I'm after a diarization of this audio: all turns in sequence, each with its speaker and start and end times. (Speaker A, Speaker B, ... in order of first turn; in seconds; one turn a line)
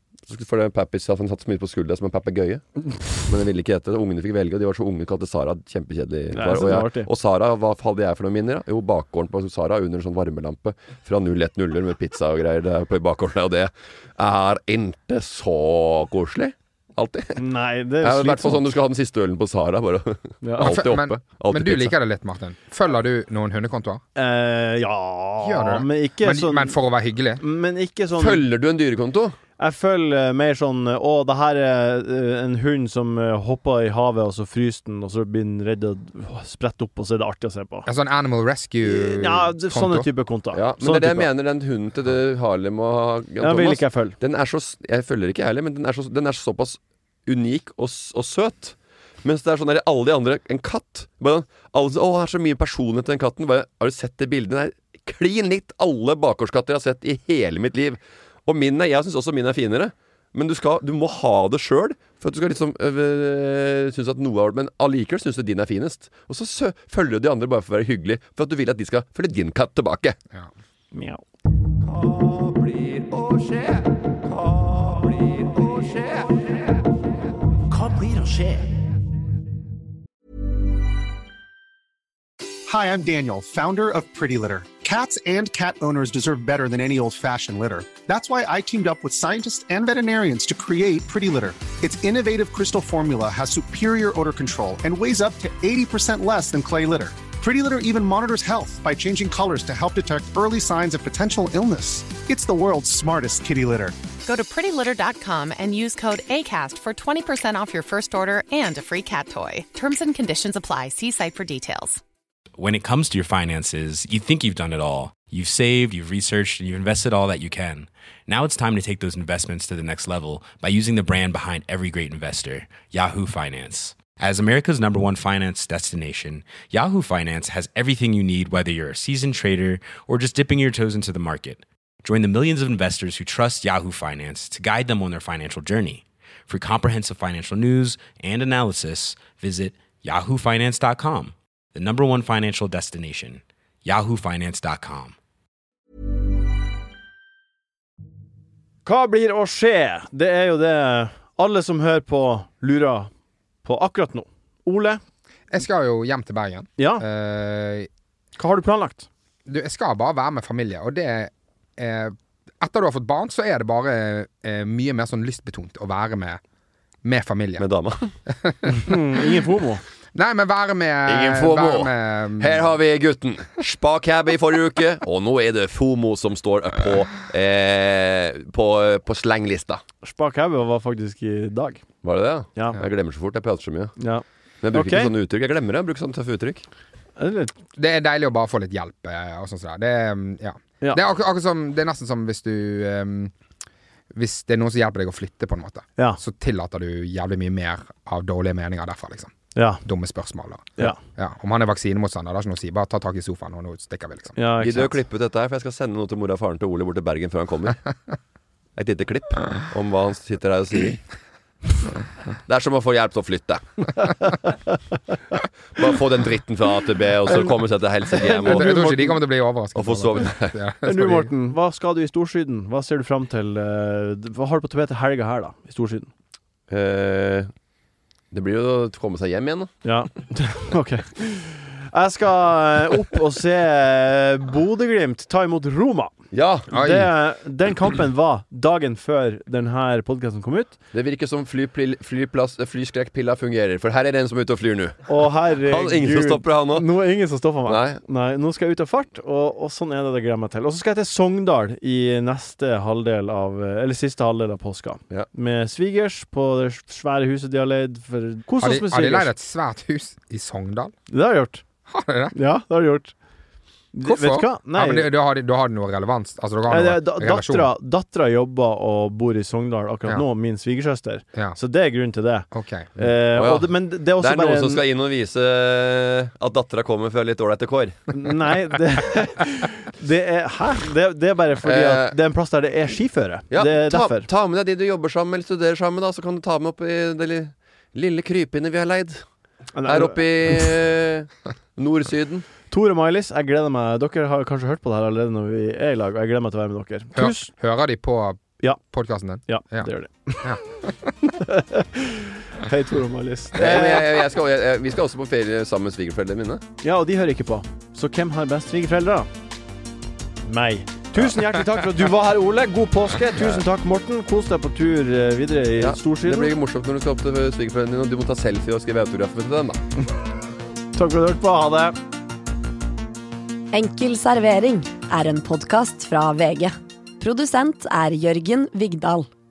Speaker A: 0.3-2.6
Speaker A: 3.3-17.4
Speaker B: 6.3-7.1
Speaker B: 17.4-18.6
Speaker A: 18.0-21.9
Speaker B: 20.4-20.8
Speaker C: 20.6-24.0
Speaker B: 24.2-26.8
Speaker C: 25.4-27.4
Speaker B: 27.4-28.4
Speaker A: 28.2-29.4
Speaker B: 29.6-37.9
Speaker C: 37.9-40.1
Speaker B: 38.9-41.3
Speaker A: 40.5-70.2
Speaker B: 43.4-44.2
Speaker B: 70.9-71.2
Speaker A: 71.8-76.3
Speaker A: 77.7-78.7
Speaker D: 82.7-104.0
Speaker E: 104.2-112.0
Speaker F: 112.6-145.2
Speaker B: 148.8-153.1
Speaker B: 153.6-155.0
Speaker C: 155.5-157.9
Speaker B: 156.8-157.1
Speaker B: 158.4-159.1
Speaker C: 159.5-166.4
Speaker C: 167.0-167.7
Speaker A: 167.6-168.2
Speaker C: 168.3-168.9
Speaker B: 168.7-169.8
Speaker C: 170.2-172.7
Speaker A: 171.1-179.8
Speaker B: 180.0-181.8
Speaker A: 182.0-184.0
Speaker B: 184.0-185.1
Speaker A: 184.6-186.6
Speaker B: 187.2-187.5
Speaker C: 187.8-193.3
Speaker C: 194.1-204.4
Speaker B: 199.6-199.8
Speaker B: 204.4-205.0
Speaker A: 204.6-207.8
Speaker A: 208.8-211.0
Speaker A: 212.5-214.0
Speaker A: 215.8-218.7
Speaker B: 218.1-219.2
Speaker C: 218.5-221.3
Speaker A: 219.8-220.6
Speaker B: 220.8-226.1
Speaker A: 226.7-227.5
Speaker A: 228.3-229.7
Speaker B: 229.8-236.1
Speaker A: 236.3-236.7
Speaker B: 236.7-240.7
Speaker C: 236.7-237.1
Speaker A: 240.9-246.9
Speaker B: 245.1-259.3
Speaker A: 247.7-248.0
Speaker C: 258.6-260.9
Speaker B: 261.1-261.6
Speaker C: 261.9-262.3
Speaker B: 262.3-263.1
Speaker B: 263.9-265.1
Speaker C: 264.1-267.7
Speaker B: 266.7-274.8
Speaker C: 272.5-272.9
Speaker A: 273.4-278.1
Speaker B: 278.1-284.3
Speaker A: 281.6-282.1
Speaker A: 283.5-289.2
Speaker B: 289.8-290.7
Speaker A: 289.9-292.5
Speaker B: 292.7-297.5
Speaker C: 297.1-299.9
Speaker B: 299.5-300.5
Speaker C: 300.4-301.1
Speaker B: 301.4-304.1
Speaker A: 303.6-306.6
Speaker B: 306.8-309.3
Speaker B: 310.4-316.5
Speaker A: 315.8-319.8
Speaker B: 321.0-321.9
Speaker G: 323.7-329.3